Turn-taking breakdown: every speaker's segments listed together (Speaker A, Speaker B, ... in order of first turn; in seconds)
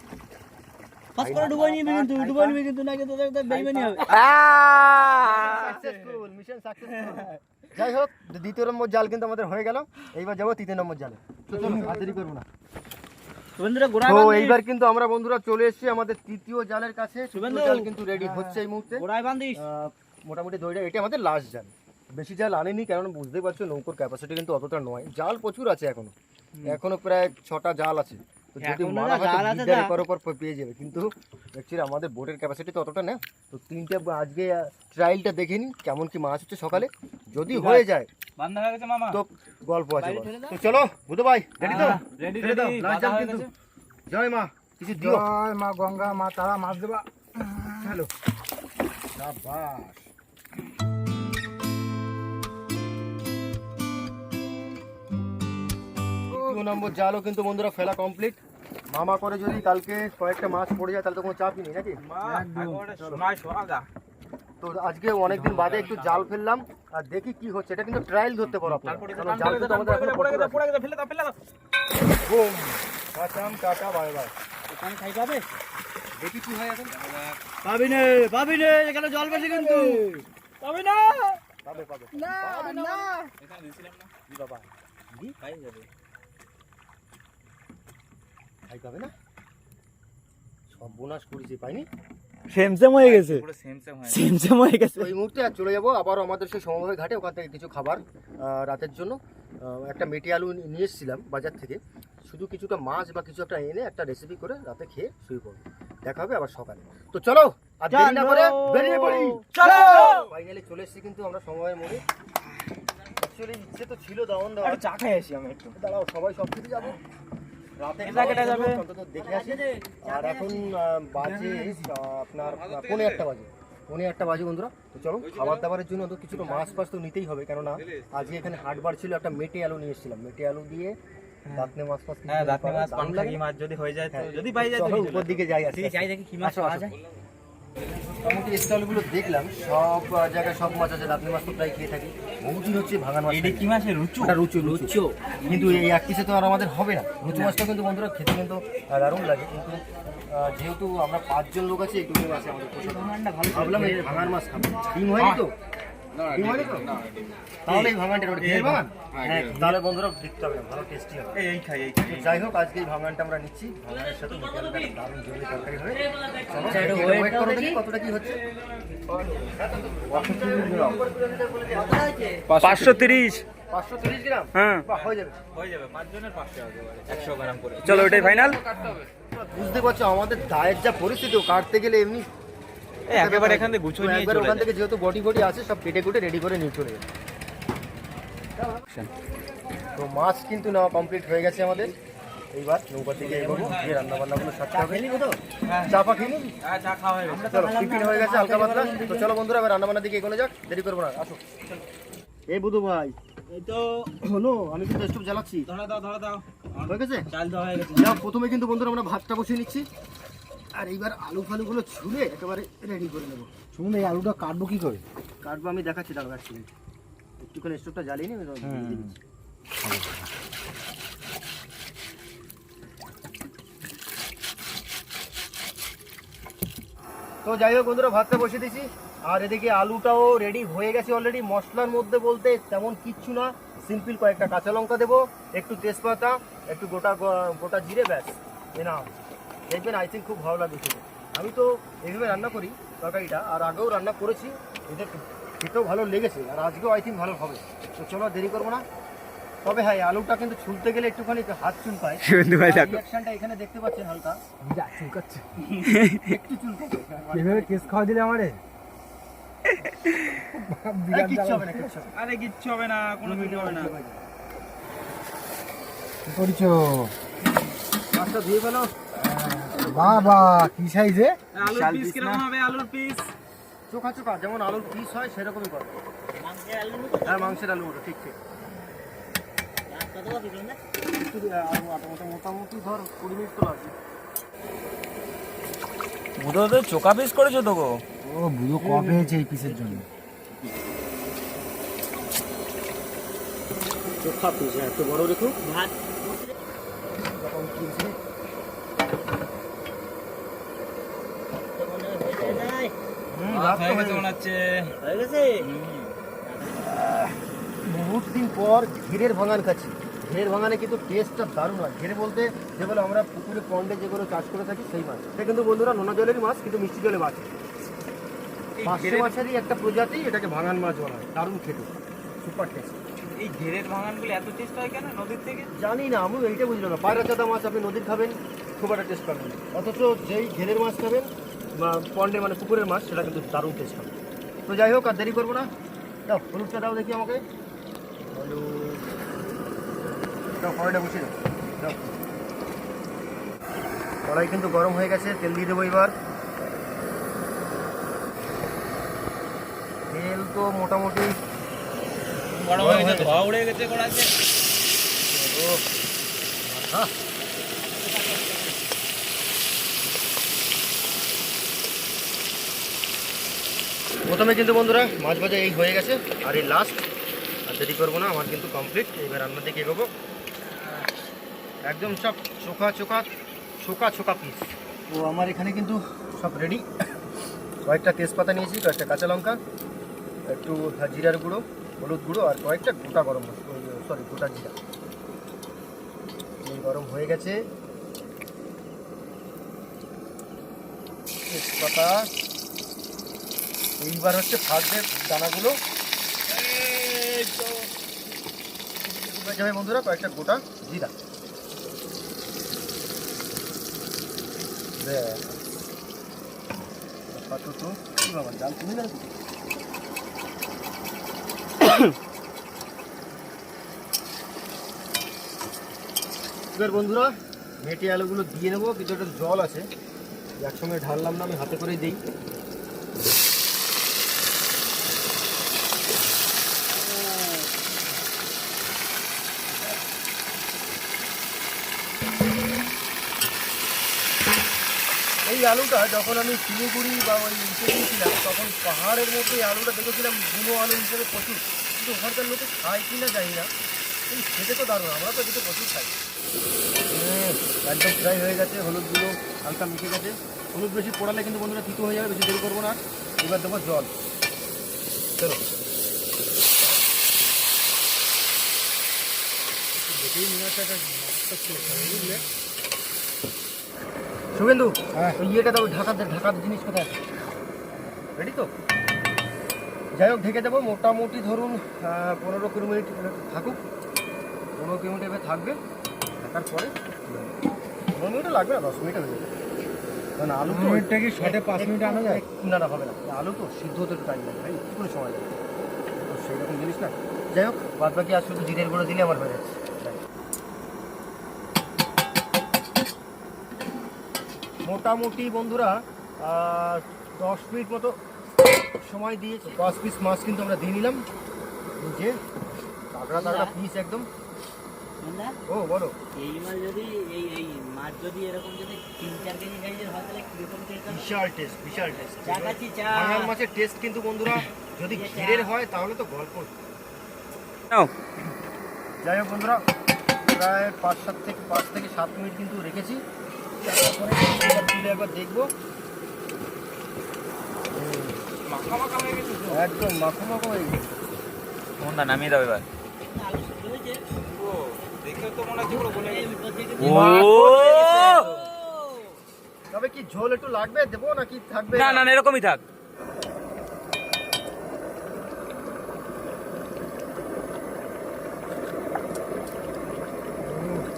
Speaker A: 1.1-4.1, 13.6-14.6, 17.3-19.6, 28.6-29.9, 40.0-40.6, 41.7-41.9, 74.7-75.5, 77.6-80.1, 80.7-81.4, 82.1-83.3, 107.9-110.3, 119.2-120.7, 135.9-136.9, 144.6-145.2, 166.2-167.8, 171.7-172.4, 193.3-193.8, 194.7-195.4, 197.3-199.3, 203.5-204.1, 206.9-208.2, 276.4-277.6, 279.9-280.8, 295.6-296.5, 301.8-302.9, 305.0-305.7, 306.4-307.1, 357.8-358.9, 503.3-503.7, 505.2-505.6, 506.4-511.3, 512.5-513.5, 515.1-515.7, 533.3-534.2, 535.8-539.4
Speaker B: 1.2-2.6, 5.3-12.5, 14.0-38.1, 39.1-43.5, 44.1-45.3, 47.8-48.1, 49.1-50.1, 56.3-62.0, 64.6-70.6, 72.2-74.3, 76.2-77.0, 81.6-83.2, 84.3-85.4, 88.7-89.1, 90.7-91.9, 95.0-112.0, 113.2-114.8, 115.8-117.0, 117.8-131.0, 131.5-133.4, 134.1-136.9, 137.9-155.6, 156.3-157.0, 157.7-161.4, 162.1-168.4, 169.4-173.0, 173.7-175.4, 177.9-178.3, 179.3-182.3, 183.1-187.1, 189.9-191.9, 192.5-195.1, 195.8-196.6, 197.4-201.4, 202.5-203.2, 204.2-205.7, 206.9-207.3, 207.9-209.9, 210.7-213.5, 215.4-216.7, 217.4-219.2, 227.4-248.9, 249.6-254.4, 256.2-258.0, 261.1-262.1, 263.2-264.2, 268.1-269.0, 269.7-270.4, 271.6-272.4, 273.9-276.0, 277.2-278.4, 281.1-283.9, 288.8-290.0, 294.2-295.6, 297.1-298.2, 303.3-304.3, 307.8-317.5, 318.8-323.0, 325.7-334.1, 334.7-335.7, 336.3-337.4, 338.3-339.0, 340.6-342.1, 344.3-346.1, 350.1-351.4, 352.7-353.4, 355.2-355.8, 356.6-357.1, 364.3-367.1, 367.7-370.1, 371.9-376.9, 377.9-379.6, 380.5-384.8, 386.6-387.6, 391.5-392.3, 394.0-395.8, 396.8-397.9, 399.1-401.1, 405.0-405.5, 407.3-409.3, 416.7-419.9, 420.6-422.2, 435.5-443.7, 444.3-446.2, 447.1-454.1, 455.4-455.7, 461.9-462.4, 464.5-467.2, 468.4-468.7, 470.1-473.8, 474.8-475.8, 476.4-476.9, 478.1-479.5, 480.4-485.5, 486.2-490.2, 494.9-498.2, 499.0-501.2, 502.0-502.4, 503.1-504.3, 505.7-506.2, 511.1-516.7, 519.2-519.8, 520.4-523.2, 523.8-525.7, 527.9-528.5, 529.7-531.5, 537.0-538.5, 539.9-542.3, 550.6-551.0
Speaker C: 4.1-5.5, 92.5-93.5, 94.1-95.1, 172.6-173.4, 174.6-174.9, 177.8-178.6, 252.2-253.0, 255.9-256.2, 286.4-288.0, 532.0-532.9, 537.0-538.4, 541.9-542.8
Speaker D: 5.3-5.9, 37.6-37.8, 38.4-39.2, 41.6-43.5, 62.0-63.9, 65.3-66.3, 68.5-71.3, 76.9-77.4, 80.7-81.2, 83.4-84.1, 85.4-85.9, 93.0-94.3, 109.5-110.3, 114.6-115.8, 118.0-118.8, 122.4-123.2, 125.2-125.7, 126.4-126.7, 131.4-131.7, 132.3-136.9, 143.3-144.4, 145.5-145.8, 147.3-147.6, 152.8-154.3, 155.2-155.4, 157.7-158.9, 161.3-162.4, 174.9-178.9, 183.1-184.7, 193.3-194.0, 195.6-196.0, 196.6-197.9, 205.7-206.4, 262.1-263.9, 271.5-273.3, 303.5-304.9, 305.7-306.1, 318.8-319.4, 323.4-325.7, 352.5-354.3, 528.7-529.9, 534.5-537.6
Speaker E: 11.5-12.2, 45.0-48.0, 56.3-56.9, 62.2-63.2, 121.2-121.9, 156.1-157.2, 159.1-159.6, 170.1-171.0, 172.5-172.9, 213.7-215.0, 218.6-219.1, 219.8-220.2, 254.6-255.4, 257.3-258.6, 260.4-261.9, 266.2-267.1, 269.2-271.4, 288.2-290.1, 460.0-462.4, 480.6-482.4